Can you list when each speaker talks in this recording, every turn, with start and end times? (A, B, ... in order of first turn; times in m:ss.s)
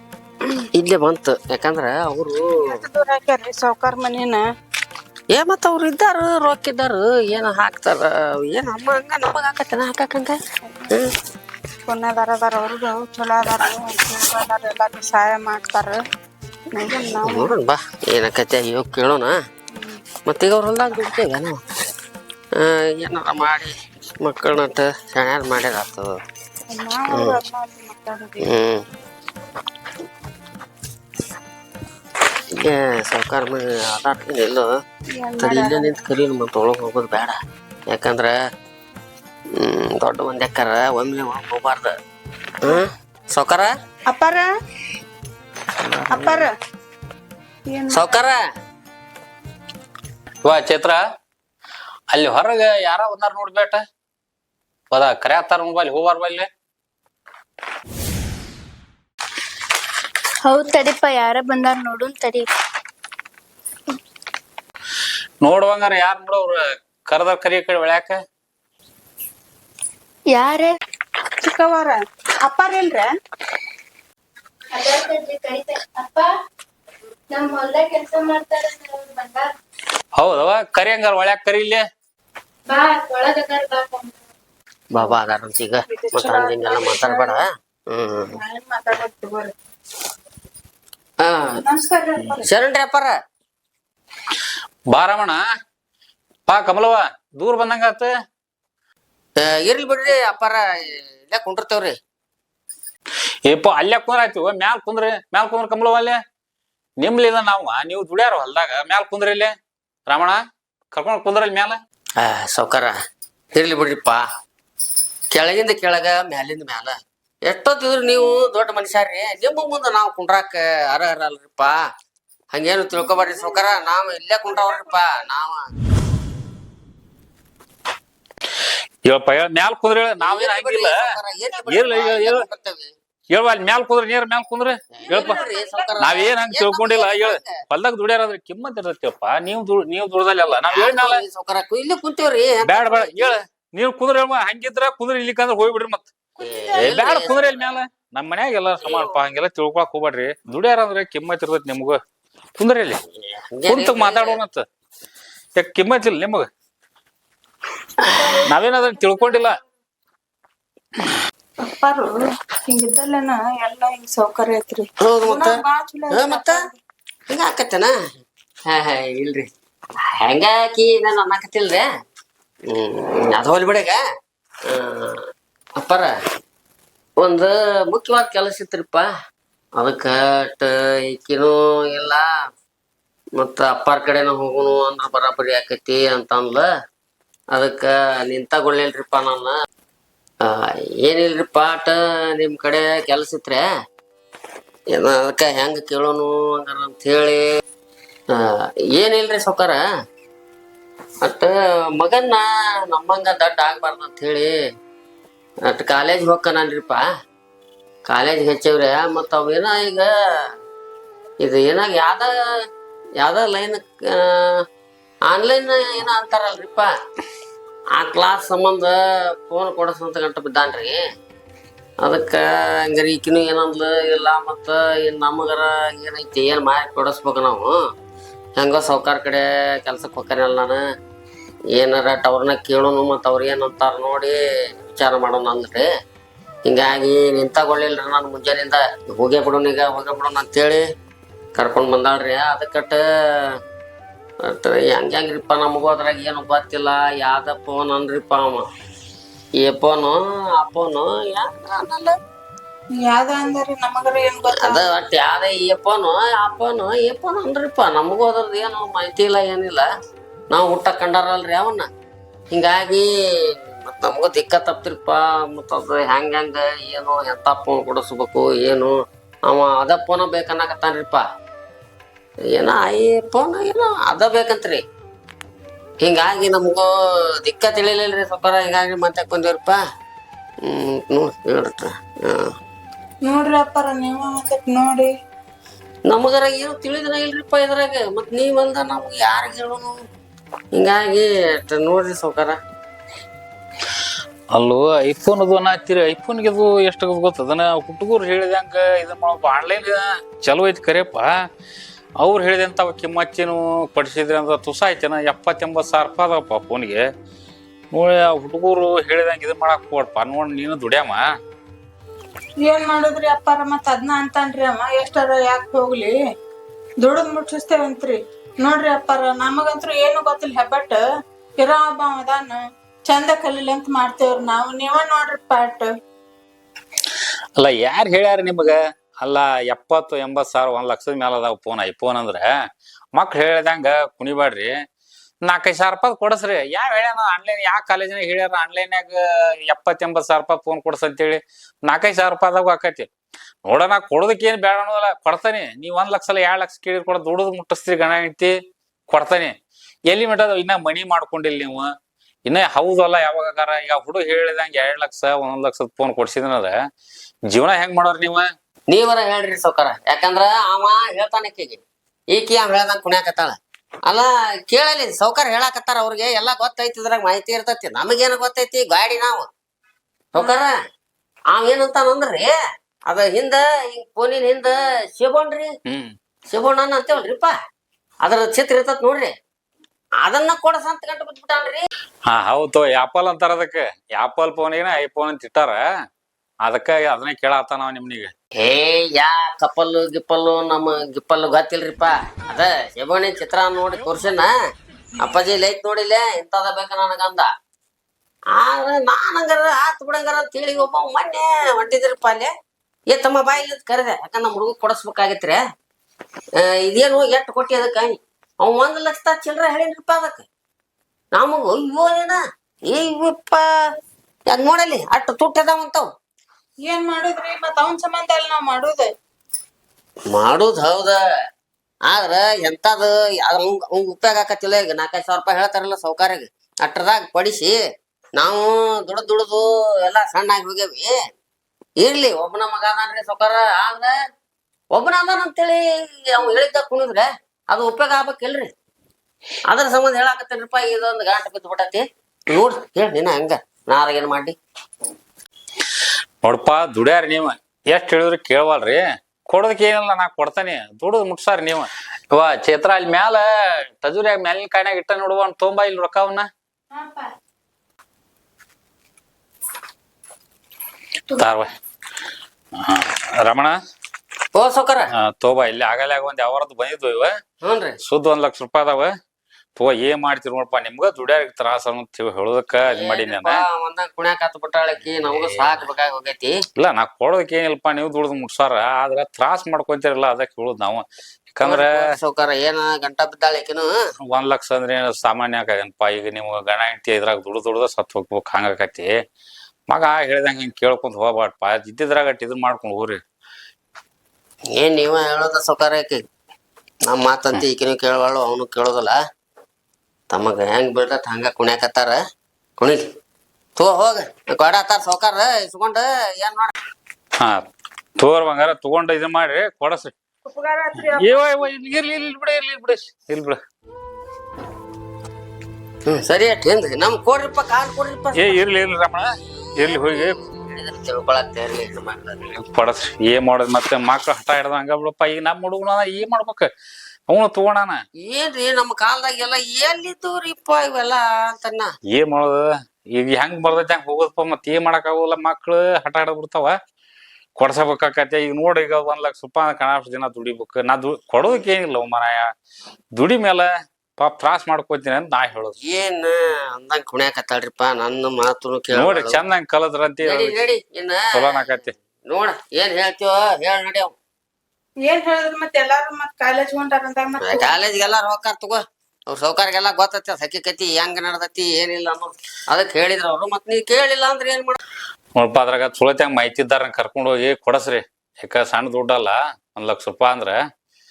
0:00.7-0:02.8 A
0:02.7-0:04.4 B
0:05.3-0:10.4 A
0:11.8-0:16.0 B
0:16.7-0:17.5 B
0:17.2-0:19.4 A
0:20.2-0:21.6 A
0:22.5-0:26.2 A
0:26.7-0:28.5 B
0:28.4-0:28.8 A
0:32.5-0:34.8 A
0:35.2-0:35.9 B
0:35.4-0:38.3 A
0:39.5-0:41.9 A
0:42.6-0:43.7 A
0:44.1-0:44.5 B
0:45.8-0:46.4 A
0:46.1-0:46.5 B
0:47.7-0:48.2 B
0:47.9-0:48.4 A
0:50.4-0:51.0 C
0:52.1-0:53.8 C
0:54.9-0:56.5 C
1:00.4-1:02.5 D
1:05.4-1:08.2 C
1:10.3-1:10.7 D
1:11.4-1:13.1 B
1:14.7-1:16.3 D
1:17.3-1:19.5 D
1:20.2-1:21.8 C
1:22.7-1:24.2 D
1:24.9-1:28.3 A
1:25.9-1:27.4 B
1:28.3-1:29.5 B
1:31.2-1:31.5 A
1:31.5-1:32.5 B
1:32.4-1:33.1 A
1:34.9-1:35.4 C
1:36.5-1:38.1 C
1:39.4-1:42.0 A
1:43.5-1:46.2 C
1:47.0-1:49.5 C
1:50.1-1:50.4 C
1:50.9-1:51.8 C
1:52.2-1:52.9 A
1:53.5-1:54.2 A
1:55.3-2:01.8 A
2:02.5-2:05.7 A
2:03.0-2:05.2 B
2:09.1-2:11.0 C
2:10.2-2:12.9 A
2:11.7-2:12.4 C
2:13.3-2:15.4 C
2:15.0-2:17.6 A
2:15.0-2:16.0 B
2:16.0-2:21.2 C
2:20.7-2:23.4 A
2:22.6-2:26.1 C
2:26.4-2:27.4 B
2:26.4-2:27.4 A
2:26.8-2:32.0 C
2:28.8-2:29.1 A
2:32.6-2:33.0 C
2:33.1-2:34.4 A
2:33.7-2:34.6 C
2:35.6-2:36.5 C
2:38.0-2:38.4 A
2:38.5-2:39.6 C
2:41.6-2:46.8 B
2:45.0-2:46.6 A
2:47.3-2:47.9 A
2:48.7-2:49.5 A
2:50.0-2:51.9 A
2:52.7-2:54.0 A
2:54.7-2:55.2 A
2:55.8-2:56.1 A
2:57.2-2:59.1 A
2:59.8-3:02.2 A
3:03.4-3:06.6 A
3:07.5-3:09.6 A
3:10.4-3:13.6 A
3:14.9-3:17.4 A
3:18.3-3:19.8 A
3:21.2-3:24.5 A
3:25.6-3:27.0 A
3:28.0-3:30.1 A
3:31.4-3:32.3 A
3:33.2-3:34.6 A
3:35.3-3:36.9 A
3:37.9-3:41.0 A
3:42.0-3:47.8 A
3:48.6-3:50.8 A
3:51.7-3:55.9 A
3:56.6-4:00.8 A
4:01.6-4:03.6 A
4:04.4-4:08.7 A
4:09.6-4:12.1 A
4:13.0-4:14.9 B
4:14.5-4:19.8 A
4:20.5-4:21.9 A
4:22.5-4:29.0 A
4:29.5-4:31.2 A
4:32.5-4:34.8 A
4:36.0-4:36.9 A
4:37.4-4:39.8 A
4:40.6-4:42.5 A
4:43.2-4:45.1 B
4:46.1-4:50.0 A
4:50.7-4:52.6 A
4:54.5-5:01.3 C
5:02.2-5:07.0 C
5:07.9-5:11.2 C
5:12.6-5:16.1 B
5:17.0-5:21.0 B
5:21.6-5:25.9 B
5:27.6-5:32.4 C
5:33.1-5:34.7 C
5:35.5-5:43.1 C
5:43.7-5:48.5 C
5:49.1-5:49.5 C
5:50.1-5:51.9 C
5:52.5-5:56.7 C
5:57.5-5:58.5 C
5:58.9-6:01.8 A
6:02.3-6:09.5 A
6:10.3-6:10.7 A
6:11.5-6:12.5 A
6:13.1-6:15.7 A
6:15.9-6:16.1 C
6:16.5-6:17.5 A
6:18.2-6:19.3 A
6:20.2-6:21.8 A
6:22.3-6:25.8 C
6:26.6-6:28.3 C
6:28.6-6:34.5 A
6:35.2-6:37.5 A
6:38.5-6:42.5 A
6:43.1-6:45.6 A
6:46.6-6:50.4 A
6:51.3-6:53.6 A
6:54.5-6:56.1 A
6:56.8-6:59.1 B
7:00.3-7:01.2 A
7:02.0-7:07.8 A
7:08.4-7:11.1 A
7:12.0-7:14.1 A
7:14.9-7:18.7 A
7:19.7-7:24.6 A
7:26.4-7:33.4 C
7:34.0-7:36.5 C
7:41.4-7:41.7 C
7:42.8-7:43.7 C
7:44.5-7:45.1 A
7:45.3-7:47.3 C
7:47.6-7:48.0 A
7:48.0-7:49.1 C
7:49.8-7:53.6 C
7:52.8-7:56.6 A
7:55.1-7:55.8 C
7:56.8-8:02.0 C
8:01.6-8:03.9 A
8:04.3-8:09.1 C
8:09.9-8:13.2 C
8:14.7-8:16.2 A
8:17.0-8:19.2 A
8:20.3-8:22.2 A
8:23.8-8:26.7 A
8:28.2-8:30.1 C
8:30.4-8:31.4 B
8:30.9-8:33.6 C
8:36.1-8:38.6 A
8:38.4-8:39.3 C
8:39.7-8:42.4 A
8:39.8-8:40.4 C
8:42.5-8:46.7 C
8:47.3-8:48.0 C
8:48.2-8:51.9 A
8:52.1-8:56.7 C
8:57.6-9:02.5 C
9:03.2-9:03.7 C
9:04.2-9:05.7 C
9:05.8-9:09.4 A
9:08.9-9:10.6 C
9:10.2-9:14.1 A
9:11.3-9:11.9 C
9:15.0-9:17.8 B
9:17.4-9:24.8 A
9:25.4-9:30.6 C